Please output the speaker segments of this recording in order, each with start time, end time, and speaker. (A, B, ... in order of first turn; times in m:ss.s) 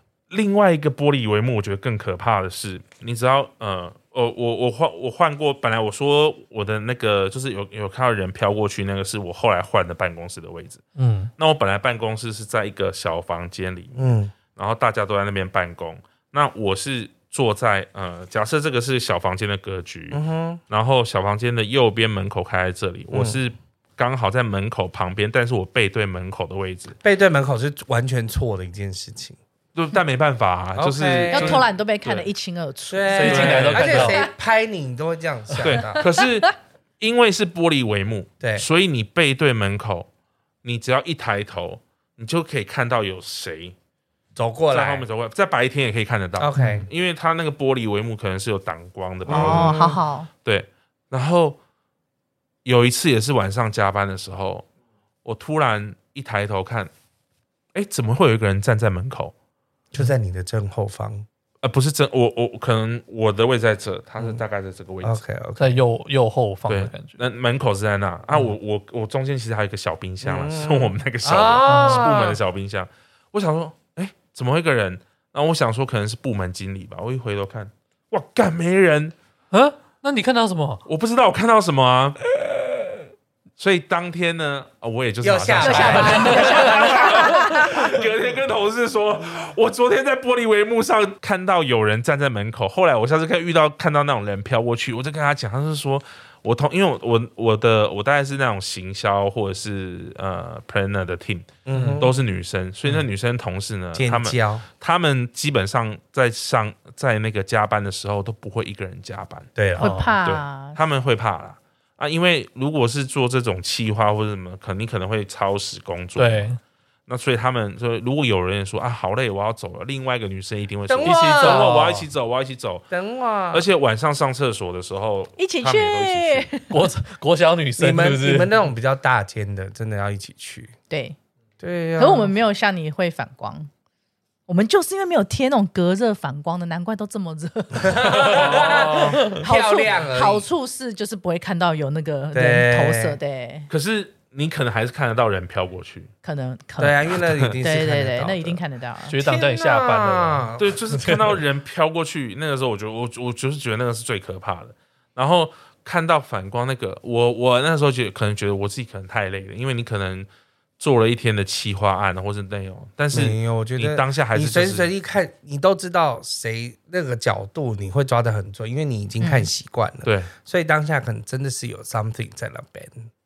0:00.3-0:10.8 A
0:11.0-0:11.3 B
0:11.4-0:27.0 A
0:13.9-0:14.3 C
0:20.1-0:20.6 C
0:23.1-0:23.4 C
0:27.0-0:29.4 C
0:29.7-0:32.3 A
0:30.8-0:31.6 C
0:31.3-0:34.3 D
0:32.9-0:36.0 C
0:33.1-0:34.2 B
0:33.3-0:33.9 A
0:35.6-0:40.1 A
0:38.4-0:38.6 C
0:40.6-0:43.7 A
0:44.4-0:45.0 C
0:44.7-0:49.9 A
0:46.4-0:46.9 C
0:46.6-0:46.8 B
0:49.3-0:50.0 C
0:49.3-0:50.3 D
0:50.4-0:51.6 A
0:52.6-0:54.6 A
0:55.2-0:56.9 A
0:57.7-0:59.3 A
0:59.9-1:01.2 C
1:01.6-1:05.2 A
1:05.0-1:05.8 C
1:05.6-1:07.2 B
1:06.7-1:19.1 A
1:10.2-1:12.4 C
1:11.6-1:12.1 B
1:19.5-1:20.8 B
1:20.8-1:22.2 A
1:23.6-1:49.5 A
1:25.2-1:27.1 C
1:25.6-1:27.8 D
1:25.9-1:26.5 B
1:41.6-1:42.1 C
1:41.7-1:42.0 B
1:43.9-1:44.6 C
1:49.6-1:49.9 C
1:49.8-1:50.1 B
1:49.8-1:50.8 D
1:50.2-1:56.5 A
1:56.2-1:56.6 B
1:57.1-2:02.9 A
2:00.9-2:01.7 C
2:01.0-2:02.1 B
2:02.9-2:03.6 C
2:03.5-2:06.5 A
2:05.4-2:06.7 D
2:06.7-2:08.5 B
2:07.8-2:10.7 C
2:10.9-2:11.2 D
2:11.6-2:12.3 C
2:12.0-2:13.7 D
2:14.5-2:23.7 D
2:17.8-2:20.4 C
2:18.2-2:19.3 A
2:22.3-2:23.2 C
2:23.7-2:26.1 A
2:26.2-2:27.0 D
2:26.8-2:28.6 C
2:27.2-2:27.5 A
2:27.6-2:29.2 D
2:29.1-2:31.3 B
2:29.2-2:30.7 C
2:30.6-2:40.3 A
2:40.8-2:44.9 A
2:43.1-2:53.1 C
2:49.2-2:49.5 D
2:50.0-2:50.3 A